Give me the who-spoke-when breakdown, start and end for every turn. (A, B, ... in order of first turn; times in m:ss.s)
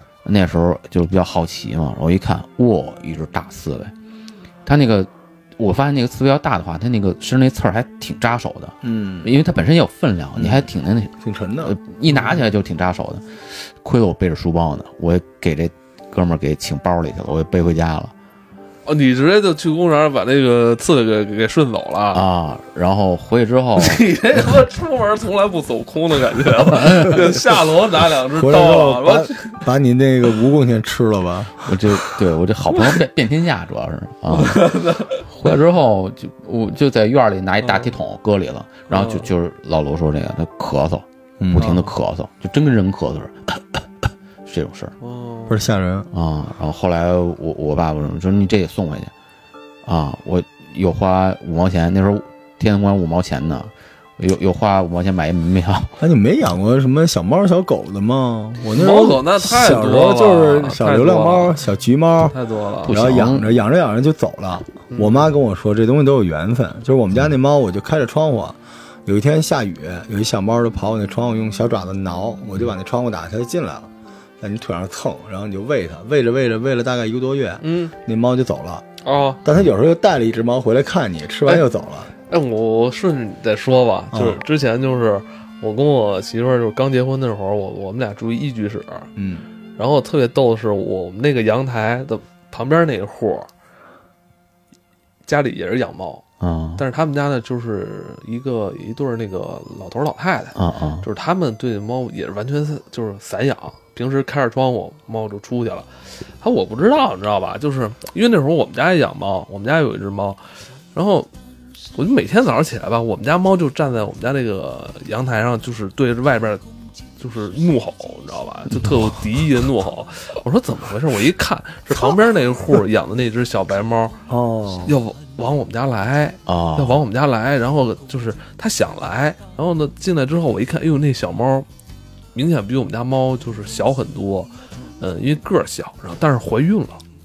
0:00.2-0:03.9 A
0:04.7-0:18.1 A
0:08.8-0:09.3 B
0:10.4-0:10.7 B
0:11.2-0:11.8 B
0:12.1-0:12.4 C
0:18.9-0:22.2 C
0:22.1-0:24.1 A
0:23.8-0:29.6 C
0:28.3-0:31.8 B
0:31.6-0:34.7 A
0:34.3-0:35.2 C
0:35.2-0:44.9 A
0:37.6-0:37.9 C
0:38.9-0:39.3 C
0:41.4-0:41.8 B
0:41.6-0:41.9 C
0:45.0-0:45.6 C
0:45.5-0:46.1 B
0:46.1-0:49.1 A
0:49.8-0:56.0 A
0:56.0-1:02.4 B
0:58.8-1:01.6 C
1:02.2-1:03.0 C
1:02.9-1:03.6 A
1:02.9-1:18.8 B
1:04.9-1:05.3 C
1:17.6-1:17.9 C
1:19.0-1:19.4 C
1:19.4-1:22.1 B
1:22.3-1:29.1 C
1:24.1-1:24.4 B
1:29.2-1:29.5 B
1:29.8-1:33.5 C
1:35.3-1:36.2 C
1:36.4-1:36.8 A
1:36.8-1:45.9 C
1:40.6-1:41.1 A
1:46.4-1:50.4 C
1:50.9-1:51.3 C
1:52.0-1:56.6 C
1:57.2-2:04.2 C
1:58.7-1:59.2 A
2:04.3-2:05.0 B
2:04.8-2:11.7 C
2:06.5-2:07.0 A
2:12.4-2:17.0 C